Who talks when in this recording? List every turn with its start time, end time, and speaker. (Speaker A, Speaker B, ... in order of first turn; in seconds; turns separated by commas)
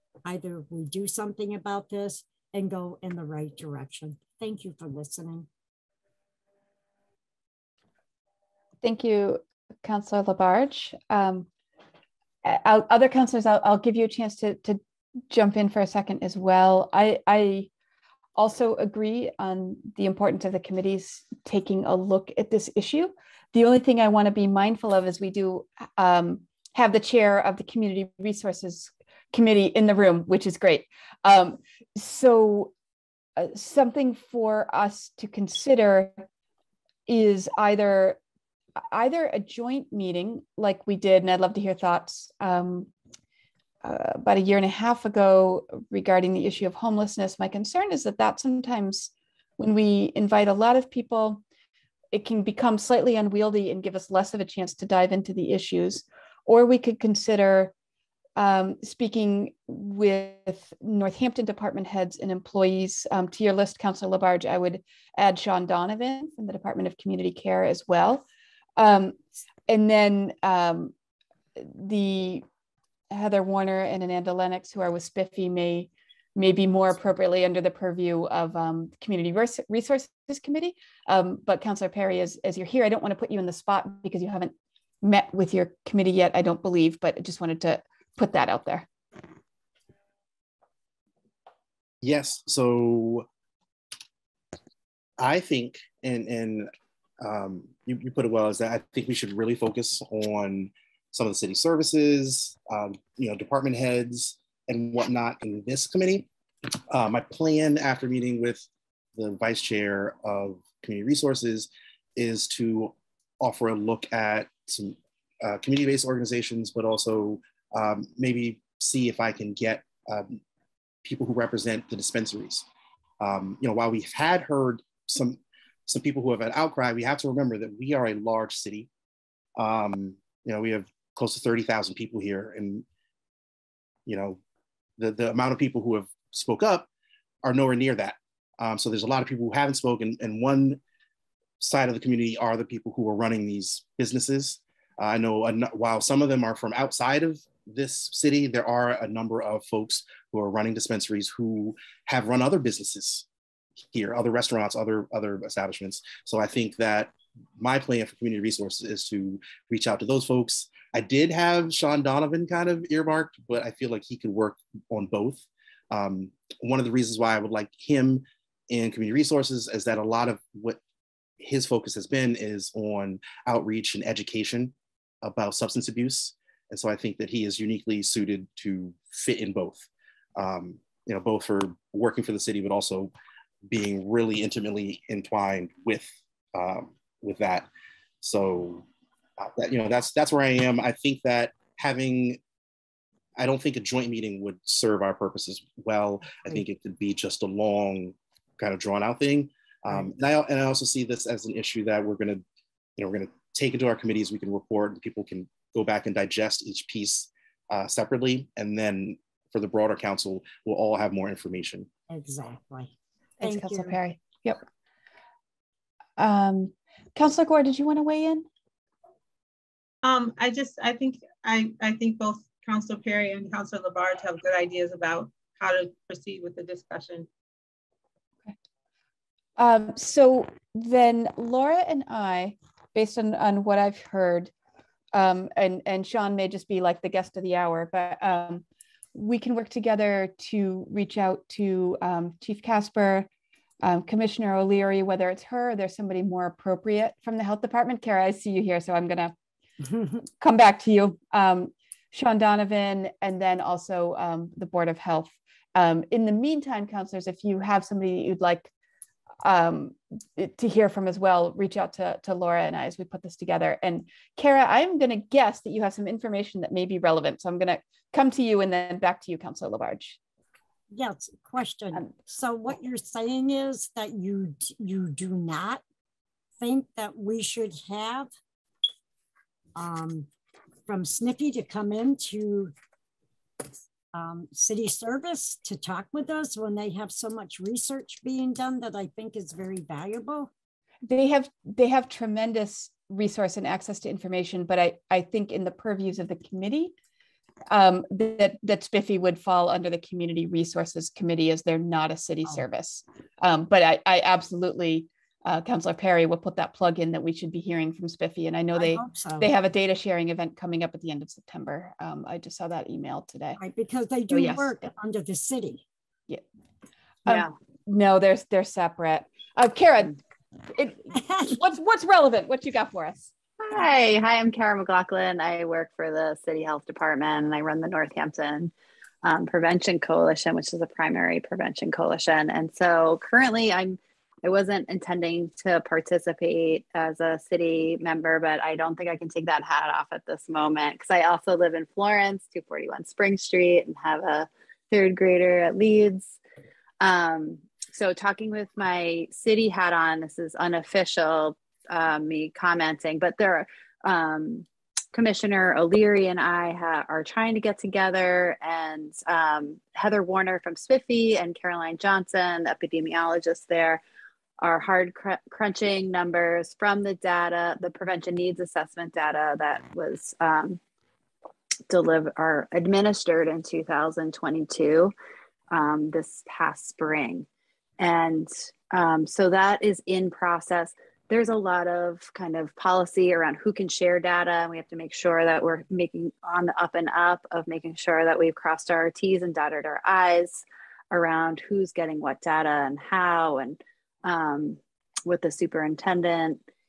Speaker A: 0.2-5.5, Speaker B: 8.8-11.5, Speaker B: 12.4-17.7, Speaker B: 18.4-32.7, Speaker B: 33.4-36.2, Speaker B: 37.1-38.2, Speaker B: 38.8-42.9, Speaker B: 43.8-51.4, Speaker B: 52.1-57.7, Speaker B: 58.4-68.2, Speaker B: 68.8-69.2, Speaker B: 69.7-70.9, Speaker B: 71.5-72.4, Speaker B: 73.1-88.8, Speaker C: 92.0-93.2, Speaker C: 95.2-96.7, Speaker C: 97.2-106.3, Speaker C: 106.9-120.4, Speaker C: 121.0-122.7, Speaker C: 123.2-128.9, Speaker C: 129.6-132.8, Speaker C: 134.1-134.4, Speaker C: 135.0-136.9, Speaker C: 137.4-140.8, Speaker C: 141.6-153.2, Speaker C: 153.9-170.8, Speaker C: 171.4-183.1, Speaker C: 183.7-187.7, Speaker C: 188.2-188.8, Speaker C: 189.4-192.4, Speaker C: 193.4-202.4, Speaker C: 203.0-211.9, Speaker A: 212.1-214.0, Speaker B: 213.4-214.6, Speaker B: 216.2-218.4, Speaker D: 220.0-227.3, Speaker B: 229.6-234.5, Speaker B: 235.1-243.3, Speaker B: 243.8-249.3, Speaker A: 249.8-250.2, Speaker B: 250.4-258.7, Speaker B: 259.4-270.2, Speaker A: 270.9-275.8, Speaker A: 276.6-278.3, Speaker A: 279.8-280.3, Speaker A: 280.9-282.7, Speaker A: 284.1-290.5, Speaker B: 291.1-296.9, Speaker B: 297.7-313.6, Speaker A: 308.7-309.5, Speaker A: 313.6-315.8, Speaker B: 314.3-314.9, Speaker E: 317.2-317.5, Speaker B: 317.2-320.1, Speaker B: 320.7-323.3, Speaker A: 321.1-321.5, Speaker E: 323.6-346.4, Speaker E: 347.0-364.0, Speaker E: 364.6-370.8, Speaker E: 371.9-375.1, Speaker E: 375.7-377.5, Speaker E: 378.0-396.6